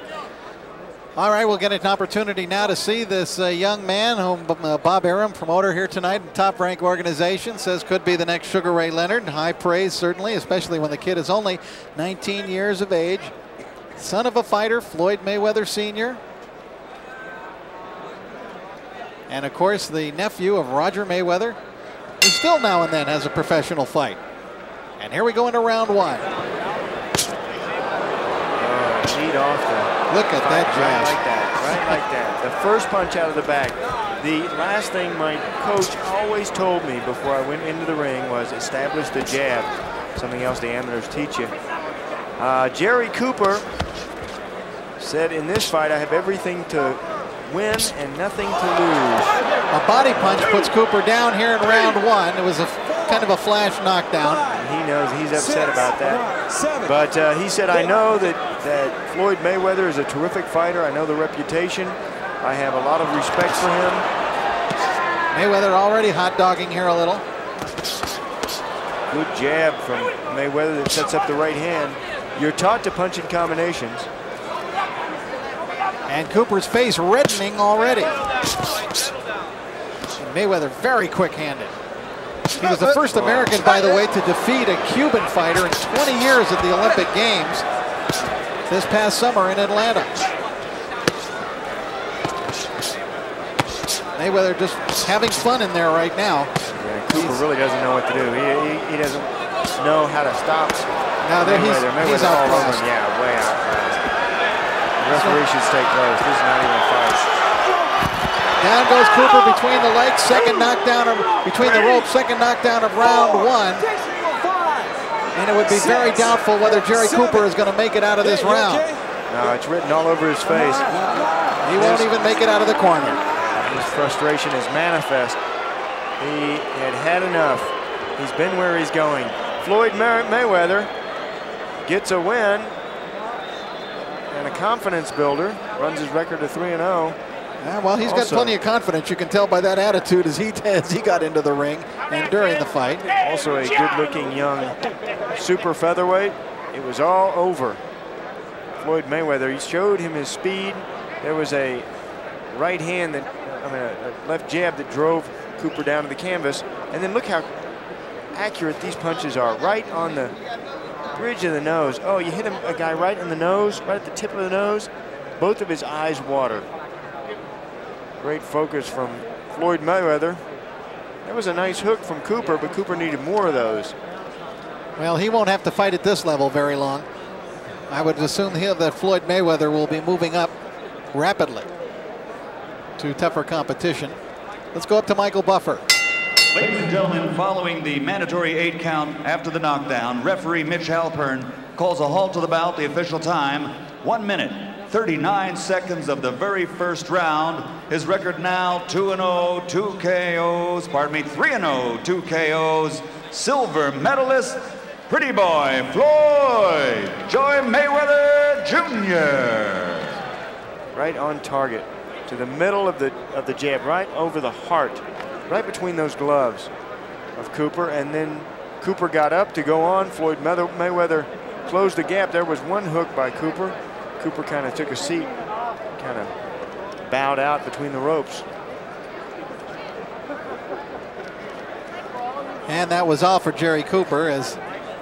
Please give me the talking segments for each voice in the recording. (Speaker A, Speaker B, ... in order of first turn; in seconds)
Speaker A: 1.2-13.3, 14.0-16.2, 19.3-21.6, 22.2-24.2, 25.0-26.3, 30.1-31.2, 49.7-54.5, 65.3-67.2, 76.1-78.2, 80.2-81.7, 82.6-87.7, 88.7-90.1, 94.2-96.5, 101.2-102.8, 105.1-105.4, 108.6-113.9, 115.3-118.9, 121.6-123.2, 137.6-143.1, 175.0-177.1, 177.9-180.5, 181.1-181.7, 183.0-184.2, 184.7-185.8, 232.7-234.6
Speaker B: 28.6-41.5, 42.4-43.7, 45.0-49.3, 54.5-64.1, 69.1-74.1, 82.8-83.6, 96.7-100.9, 101.4-104.0, 105.0-107.3, 119.3-122.1, 123.5-125.4, 126.2-130.9, 131.8-132.8, 134.3-137.2, 138.0-138.6, 143.2-147.8, 148.8-151.9, 152.5-157.5, 158.3-160.3, 161.1-166.7, 168.2-170.4, 171.2-173.9, 210.9-216.7, 217.4-225.3, 226.0-226.3, 227.1-228.4
Speaker C: 186.5-210.2